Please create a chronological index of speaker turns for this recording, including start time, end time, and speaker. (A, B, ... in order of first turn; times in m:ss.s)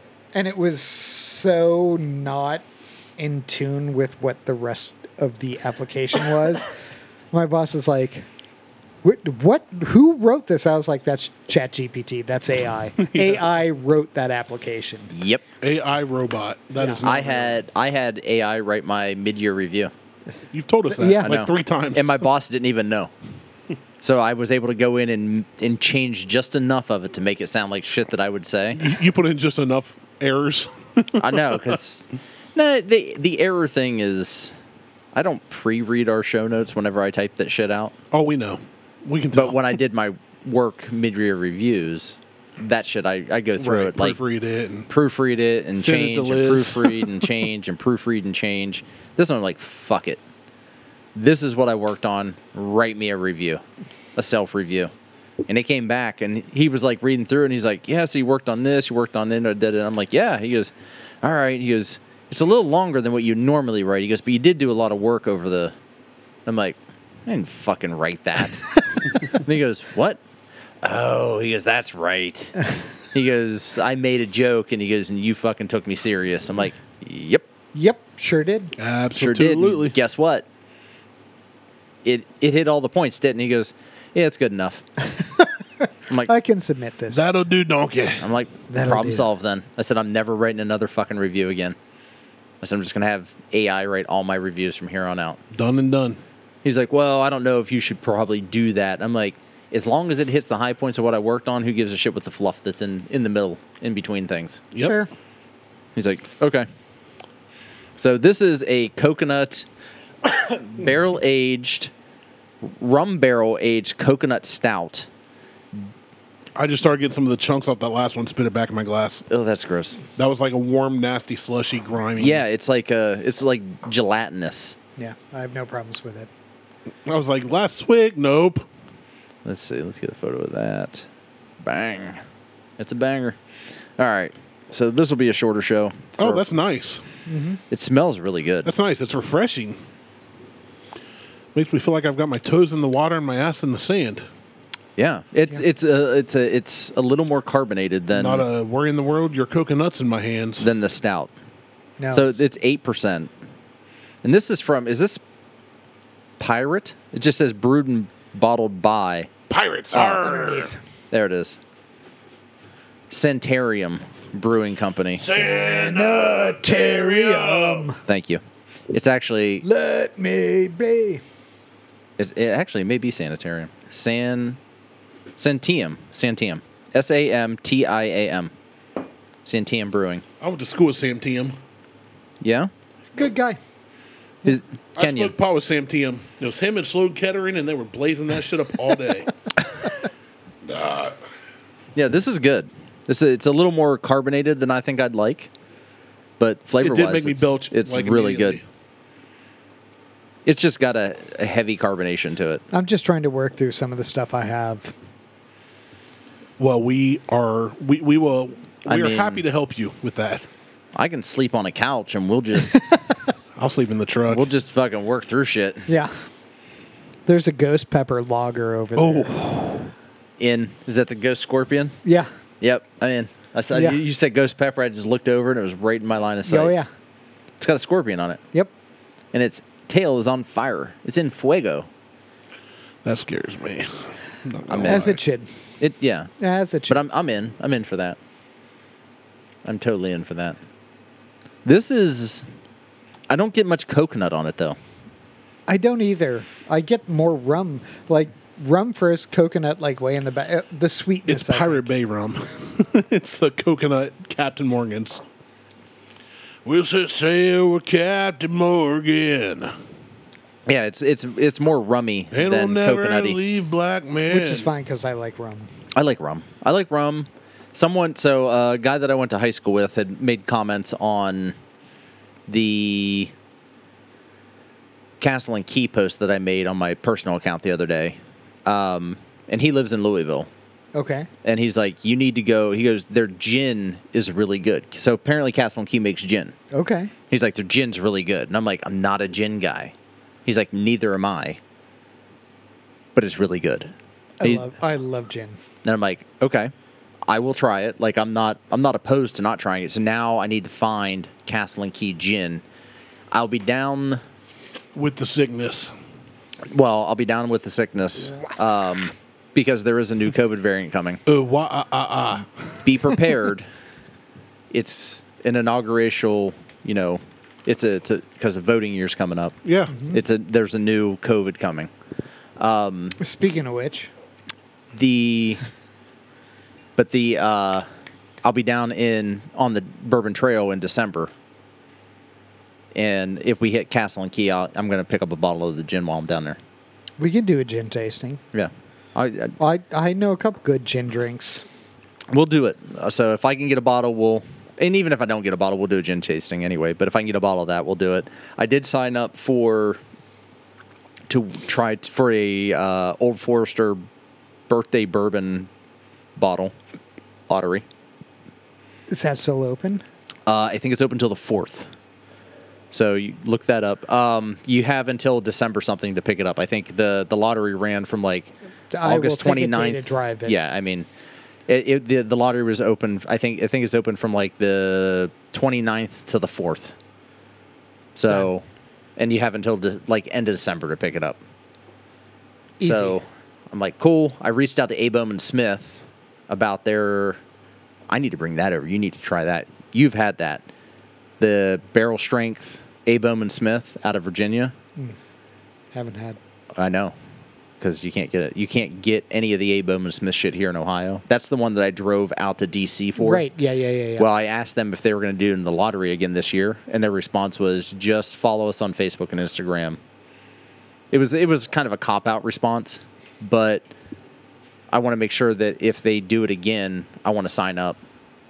0:00.3-0:02.6 A
0:03.2-0:06.7 A
0:07.3-0:08.2 A
0:09.0-0:15.1 A
0:13.0-0:13.5 B
0:15.1-0:15.4 C
0:15.6-0:17.6 B
0:17.0-0:19.9 C
0:20.5-0:22.2 B
0:20.9-0:21.3 A
0:21.2-0:23.1 C
0:24.0-0:28.9 C
0:28.7-0:31.8 B
0:31.2-0:34.5 C
0:35.1-0:37.9 C
0:38.1-0:39.6 B
0:39.3-0:44.2 C
0:43.6-0:44.9 B
0:44.9-0:50.2 C
0:45.8-0:47.3 B
0:51.1-0:53.6 C
0:54.1-0:54.9 C
0:55.5-1:05.7 C
1:06.4-1:10.2 C
1:10.8-1:12.6 C
1:13.1-1:17.4 C
1:17.7-1:18.7 A
1:18.8-1:20.0 B
1:19.2-1:20.4 C
1:22.0-1:24.8 C
1:25.2-1:27.2 A
1:27.1-1:28.2 B
1:28.2-1:31.8 C
1:28.7-1:29.2 A
1:32.6-1:35.4 C
1:35.5-1:36.2 B
1:36.6-1:44.6 C
1:44.7-1:45.0 B
1:44.8-1:45.1 A
1:45.9-1:46.7 C
1:48.0-1:49.7 C
1:50.2-1:51.9 C
1:52.6-1:55.1 C
1:56.5-1:59.2 B
1:59.3-2:00.0 C
2:00.2-2:02.4 B
2:02.2-2:04.8 C
2:05.0-2:06.3 A
2:07.0-2:08.6 B
2:09.4-2:11.1 C
2:11.6-2:12.2 C
2:12.8-2:13.4 C
2:14.0-2:16.4 C
2:16.2-2:17.0 B
2:17.3-2:17.6 A
2:17.7-2:18.7 C
2:18.6-2:19.8 B
2:21.5-2:24.2 B
2:25.0-2:28.4 C
2:28.1-2:30.7 B
2:30.6-2:31.3 C
2:32.0-2:32.4 A
2:32.1-2:33.3 C
2:34.2-2:35.2 C
2:36.4-2:39.3 C
2:39.5-2:40.7 B
2:39.9-2:40.2 C
2:40.0-2:40.8 A
2:41.1-2:41.6 C
2:43.1-2:45.3 C
2:45.2-2:47.9 B
2:45.3-2:48.0 A
2:48.0-2:49.6 C
2:49.6-2:51.2 A
2:52.2-2:54.6 C
2:55.4-2:58.5 C
2:59.4-3:00.2 C
3:00.4-3:01.6 B
3:02.4-3:02.7 C
3:03.0-3:03.6 A
3:04.4-3:05.3 C
3:05.0-3:09.3 B
3:10.6-3:11.2 B
3:11.9-3:15.5 C
3:16.4-3:18.6 C
3:16.8-3:18.6 B
3:20.4-3:22.6 C
3:22.7-3:24.9 A
3:26.6-3:30.5 B
3:28.8-3:29.4 C
3:30.9-3:32.8 C
3:32.7-3:33.0 A
3:33.6-3:34.4 B
3:34.3-3:35.9 C
3:35.9-3:36.1 A
3:37.3-3:39.4 A
3:39.0-3:39.9 B
3:40.4-3:41.9 C
3:42.0-3:42.3 A
3:42.6-3:46.7 C
3:43.7-3:44.0 A
3:46.5-3:46.9 A
3:47.6-3:48.4 C
3:49.3-3:51.9 C
3:53.0-3:55.2 B
3:54.7-3:55.1 C
3:54.8-3:55.5 A
3:55.8-3:56.3 C
3:56.4-3:57.0 A
3:56.9-3:58.2 C
3:59.6-4:00.6 C
4:01.6-4:02.5 C
4:03.3-4:04.8 C
4:05.7-4:11.9 A
4:11.3-4:15.2 B
4:16.6-4:19.7 B
4:20.6-4:23.4 C
4:22.3-4:24.7 B
4:24.3-4:25.7 A
4:25.9-4:31.6 C
4:32.5-4:33.3 C
4:35.2-4:40.5 C
4:40.9-4:41.3 A
4:41.4-4:46.5 C
4:46.7-4:47.1 A
4:47.3-4:49.9 C
4:50.4-4:51.6 C
4:53.1-4:53.9 C
4:54.4-4:55.6 A
4:54.4-4:54.7 C
4:55.8-4:56.7 C
4:57.3-5:02.6 C
5:03.3-5:04.2 C
5:04.9-5:05.9 B
5:06.7-5:11.2 C
5:11.2-5:12.9 B
5:12.8-5:13.7 C
5:14.7-5:19.5 C
5:19.6-5:19.9 B
5:19.9-5:20.2 A
5:20.1-5:21.9 C
5:22.6-5:23.2 C
5:23.2-5:24.1 A
5:24.9-5:25.6 C
5:27.0-5:27.8 C
5:28.4-5:31.3 C
5:32.9-5:36.6 C
5:37.2-5:38.4 A
5:38.5-5:39.6 C
5:39.6-5:41.6 A
5:42.3-5:50.0 C
5:51.3-5:54.0 C
5:54.7-5:55.7 C
5:56.4-5:56.7 C
5:57.5-5:57.8 C
5:59.1-6:00.0 A
6:00.5-6:01.9 C
6:02.9-6:08.5 C
6:08.9-6:10.6 A
6:09.0-6:11.1 C
6:11.7-6:16.9 C
6:18.2-6:18.6 C
6:19.2-6:21.4 C
6:22.8-6:23.2 A
6:22.8-6:27.4 C
6:28.1-6:30.6 C
6:31.4-6:34.7 C
6:35.9-6:36.4 A
6:36.7-6:37.1 C
6:37.8-6:43.4 C
6:43.2-6:44.3 A
6:44.2-6:50.0 C
6:51.1-6:53.8 C
6:54.9-6:58.0 C